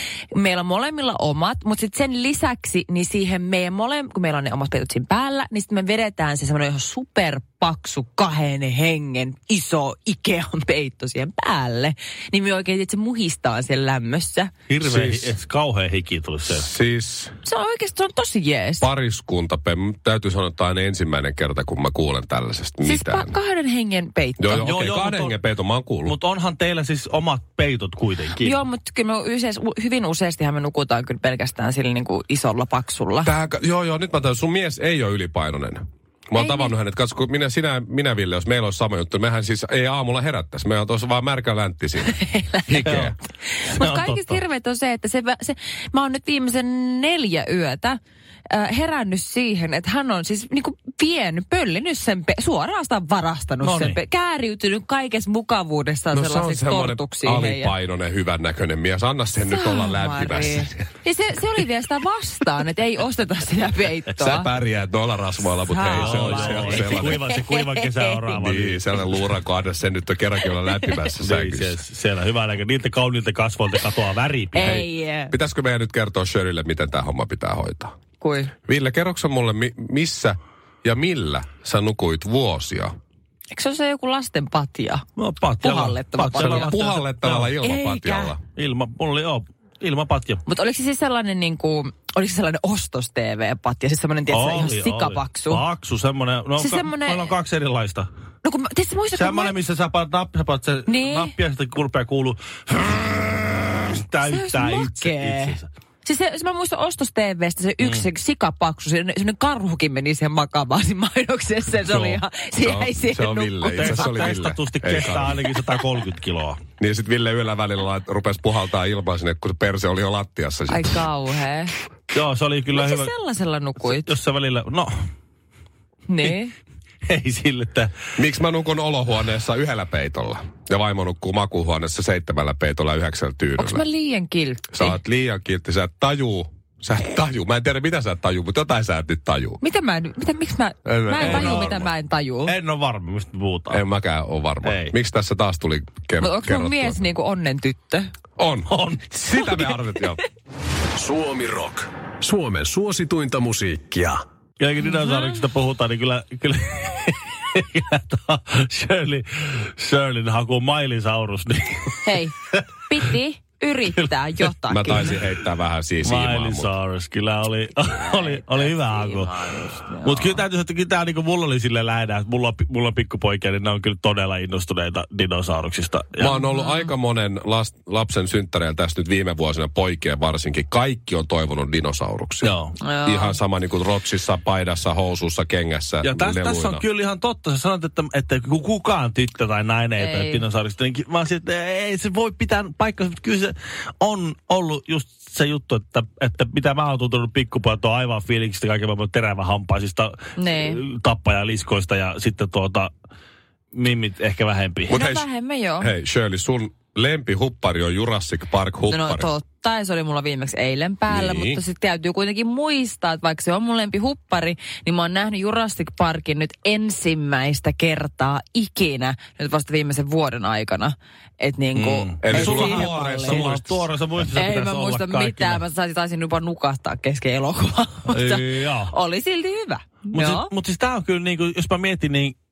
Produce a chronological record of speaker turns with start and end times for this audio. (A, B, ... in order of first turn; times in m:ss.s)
0:00.3-0:14.5 A
0:14.7-0:16.7 B
0:14.8-0:15.3 C
0:16.5-0:17.4 C
0:17.4-0:18.9 A
0:18.8-0:23.4 C
0:22.8-0:24.7 A
0:24.4-0:26.2 C
0:24.6-0:25.4 B
0:26.0-0:28.6 B
0:28.4-0:33.3 A
0:33.2-0:43.2 C
0:36.4-0:36.7 A
0:42.0-0:43.0 A
0:42.9-0:43.1 B
0:43.6-0:57.7 A
0:43.7-0:44.4 B
0:53.6-0:54.0 B
0:56.1-1:00.9 C
0:59.4-1:04.5 A
1:04.1-1:07.2 C
1:05.7-1:07.4 A
1:05.9-1:09.2 B
1:08.3-1:11.8 C
1:11.2-1:14.8 B
1:14.6-1:17.9 C
1:14.6-1:15.3 A
1:18.2-1:18.5 A
1:18.7-1:22.9 C
1:23.5-1:25.0 A
1:25.2-1:27.5 B
1:25.6-1:26.8 A
1:26.4-1:28.4 C
1:27.6-1:28.4 A
1:28.6-1:30.4 B
1:30.5-1:35.6 A
1:34.3-1:38.1 B
1:36.6-1:37.3 A
1:38.4-1:39.6 A
1:39.1-1:45.7 B
1:40.9-1:41.3 A
1:44.2-1:54.4 A
1:51.9-1:52.2 B
1:52.6-1:55.4 C
1:53.8-1:56.6 B
1:56.8-2:01.0 C
2:00.7-2:01.7 A
2:02.1-2:03.1 B
2:02.7-2:04.1 A
2:03.8-2:05.0 B
2:06.1-2:06.5 A
2:07.1-2:07.9 B
2:08.2-2:13.9 C
2:13.6-2:15.0 A
2:14.7-2:19.6 C
2:19.6-2:22.5 A
2:20.9-2:21.9 C
2:21.2-2:21.8 B
2:22.5-2:23.8 B
2:23.7-2:27.0 C
2:24.6-2:25.0 B
2:26.2-2:28.1 A
2:28.4-2:28.7 C
2:28.7-2:29.7 B
2:29.2-2:30.2 C
2:31.0-2:34.2 D
2:34.6-2:42.2 B
2:42.0-2:42.3 A
2:42.9-2:45.2 A
2:44.7-2:46.7 C
2:46.0-2:49.4 B
2:47.9-2:50.4 A
2:50.0-2:56.4 B
2:56.2-3:06.8 C
2:56.5-2:56.9 A
3:02.4-3:02.8 B
3:02.8-3:03.4 A
3:06.0-3:22.9 B
3:10.0-3:10.4 A
3:20.4-3:20.8 A
3:23.7-3:25.0 B
3:24.9-3:25.3 C
3:24.9-3:25.9 A
3:25.8-3:29.3 C
3:28.9-3:43.5 A
3:31.1-3:31.6 C
3:41.7-3:45.6 B
3:42.2-3:43.8 C
3:44.3-3:50.5 A
3:48.1-3:48.9 B
3:50.1-3:52.4 B